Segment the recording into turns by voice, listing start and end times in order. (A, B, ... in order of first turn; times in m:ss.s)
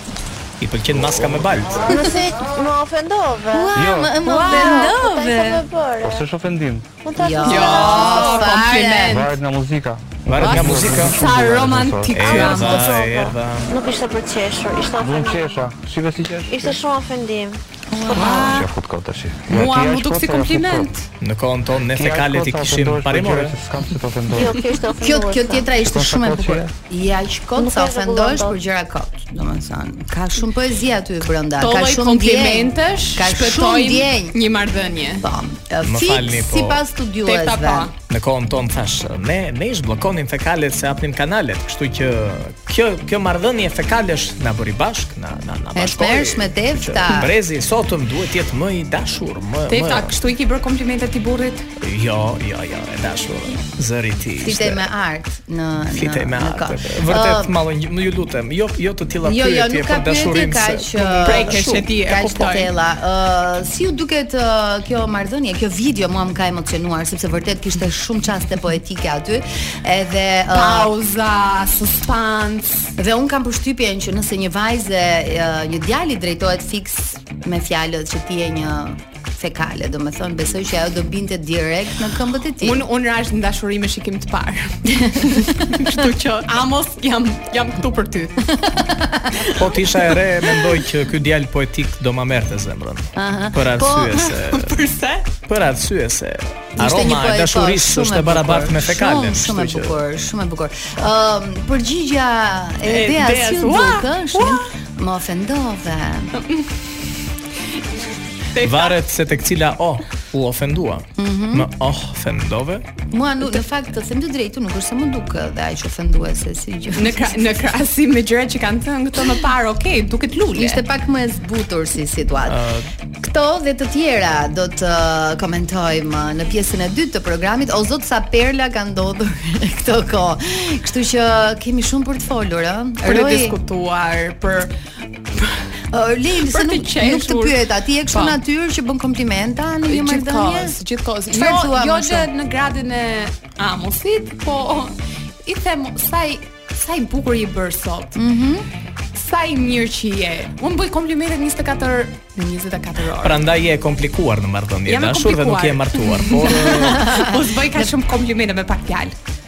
0:00.6-0:01.9 A
0:01.8-0:03.7 B
0:01.9-0:02.3 C
0:03.5-0:05.6 C
0:03.7-0:04.1 D
0:04.2-0:05.0 E
0:04.4-0:06.2 B
0:06.0-0:06.9 D
0:07.0-0:08.5 B
0:07.2-0:09.2 C
0:07.4-0:09.3 E
0:09.1-0:12.2 D
0:10.2-0:11.2 A
0:10.4-0:13.1 E
0:12.1-0:13.7 A
0:12.7-0:15.5 B
0:15.0-0:16.8 D
0:16.5-0:17.6 B
0:17.9-0:18.6 C
0:18.0-0:18.7 E
0:18.1-0:20.9 D
0:19.5-0:21.0 E
0:21.2-0:23.6 A
0:21.9-0:24.6 D
0:24.3-0:25.7 B
0:25.0-0:34.4 C
0:25.8-0:26.7 D
0:27.6-0:28.5 B
0:31.6-0:35.2 E
0:35.2-0:37.9 C
0:35.8-0:36.8 A
0:37.2-0:37.9 E
0:38.1-0:50.1 A
0:45.7-0:47.3 C
0:49.7-0:51.7 E
0:51.8-0:54.8 A
0:54.4-0:57.6 C
0:55.9-1:01.8 A
0:59.2-1:10.9 C
1:01.2-1:02.7 E
1:10.5-1:12.9 E
1:13.0-1:22.8 C
1:22.6-1:28.5 E
1:24.9-1:25.2 C
1:28.6-1:29.4 C
1:29.6-1:34.7 A
1:33.1-1:34.2 C
1:34.3-1:35.3 E
1:35.4-1:40.0 A
1:36.8-1:46.3 C
1:42.9-1:44.6 E
1:46.3-1:46.7 E
1:48.5-1:48.9 E
1:48.6-1:52.9 A
1:51.2-1:51.7 C
1:53.1-1:57.3 C
1:56.9-2:00.8 E
2:00.5-2:02.6 C
2:02.5-2:02.9 A
2:03.2-2:13.6 C
2:13.0-2:14.7 E
2:15.3-2:15.6 E
2:15.9-2:20.8 C
2:16.5-2:17.6 E
2:18.1-2:18.4 E
2:19.9-2:24.9 E
2:21.3-2:22.3 C
2:25.4-2:28.2 E
2:28.1-2:28.6 C
2:29.1-2:33.4 E
2:33.2-2:37.1 A
2:34.8-2:39.1 E
2:36.7-2:37.9 C